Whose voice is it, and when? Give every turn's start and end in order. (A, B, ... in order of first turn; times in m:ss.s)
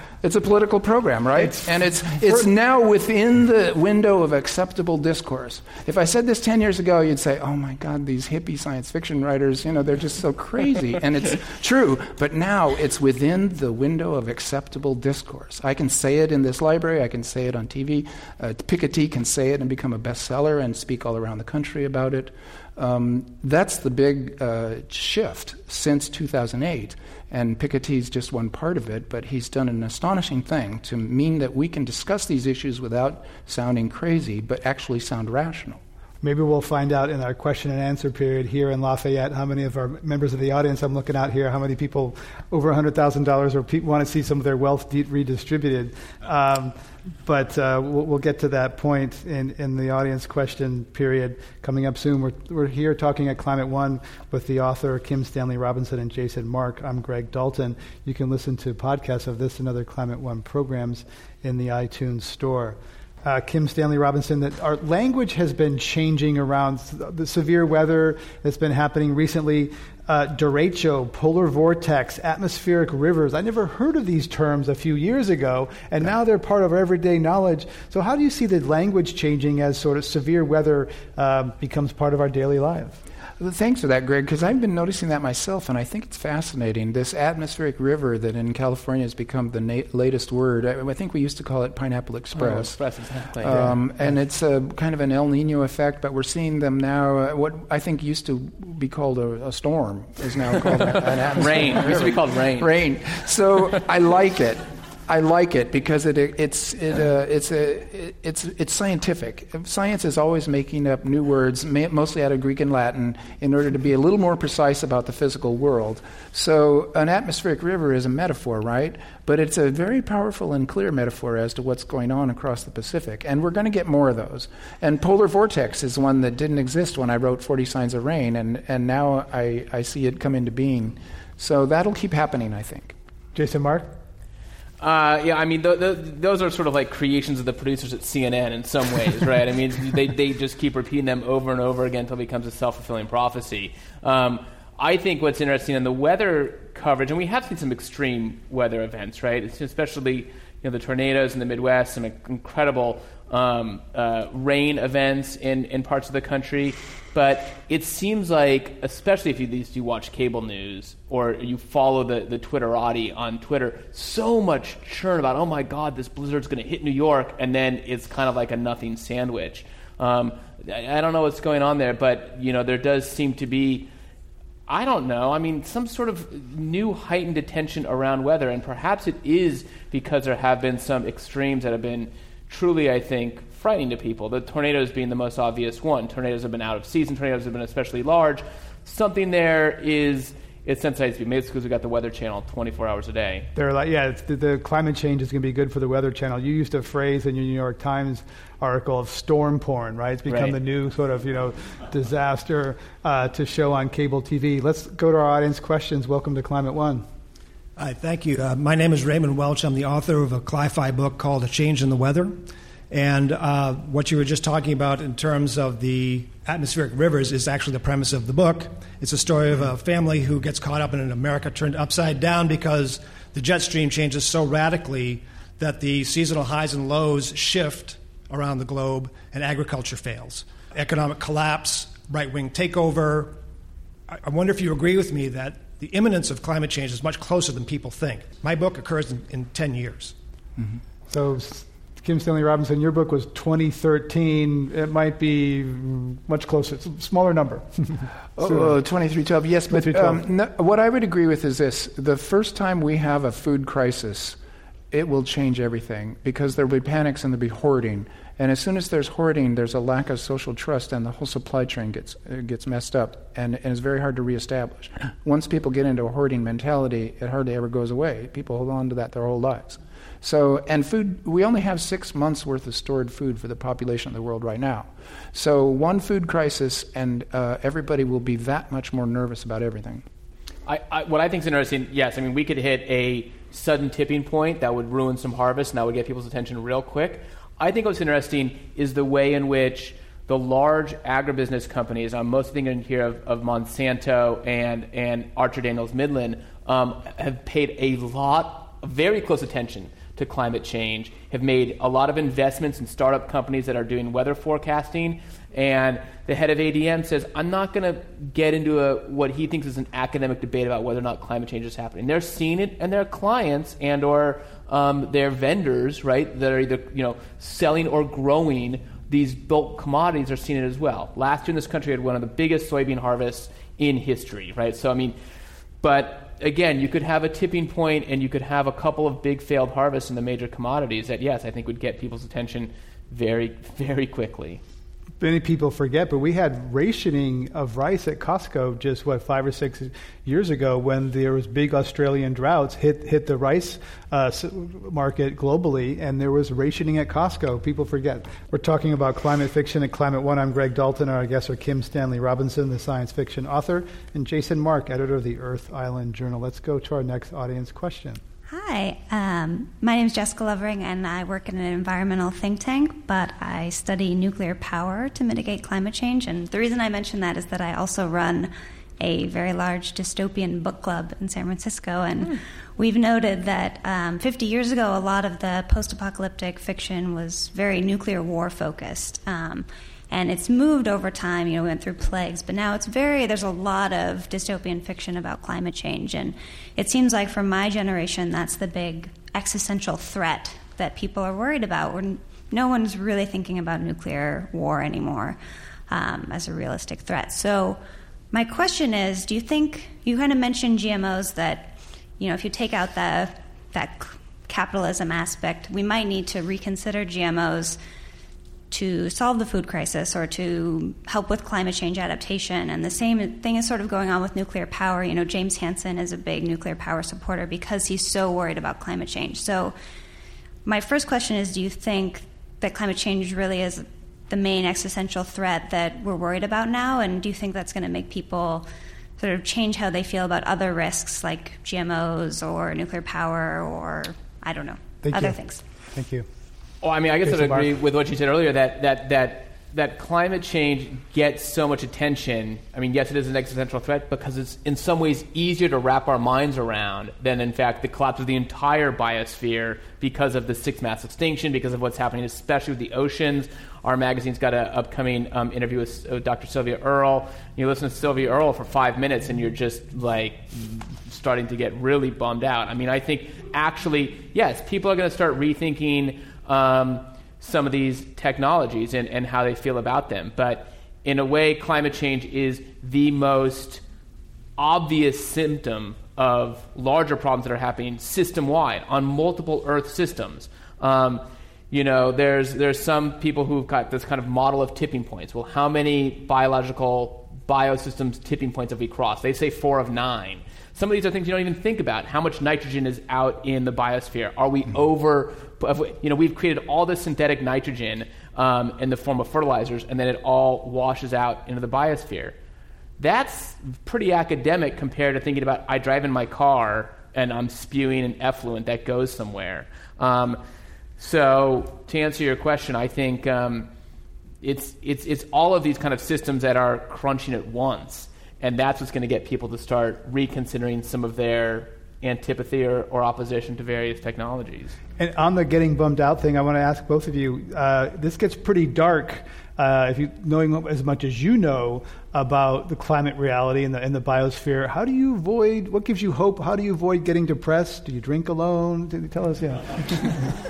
0:00.2-0:35.8 A
0:36.2-1:23.0 B
1:23.4-1:32.8 A
1:32.3-1:33.8 C
1:33.4-2:13.0 A
1:41.1-1:42.7 C
2:13.4-2:13.9 B
2:14.8-2:53.9 C
2:54.7-3:13.5 C
3:13.6-3:27.0 B
3:20.3-3:20.6 C
3:27.8-3:53.4 D
3:54.1-4:00.1 D
4:01.1-4:08.7 B
4:08.4-4:14.4 A
4:09.7-4:10.2 B
4:14.9-4:40.0 A
4:40.7-5:25.2 C
5:25.8-5:34.6 C
5:35.2-5:58.2 B
5:58.5-6:35.4 E
6:35.9-6:37.8 E
6:38.3-6:47.8 E
6:48.7-6:59.8 E
7:00.6-7:15.6 E
7:15.1-7:15.4 B
7:15.9-7:16.3 B
7:16.8-7:53.8 C
7:17.3-7:17.6 B
7:54.6-8:22.4 C
8:23.0-8:30.4 C
8:31.0-8:33.7 C
8:34.4-8:44.8 C
8:45.0-9:00.2 B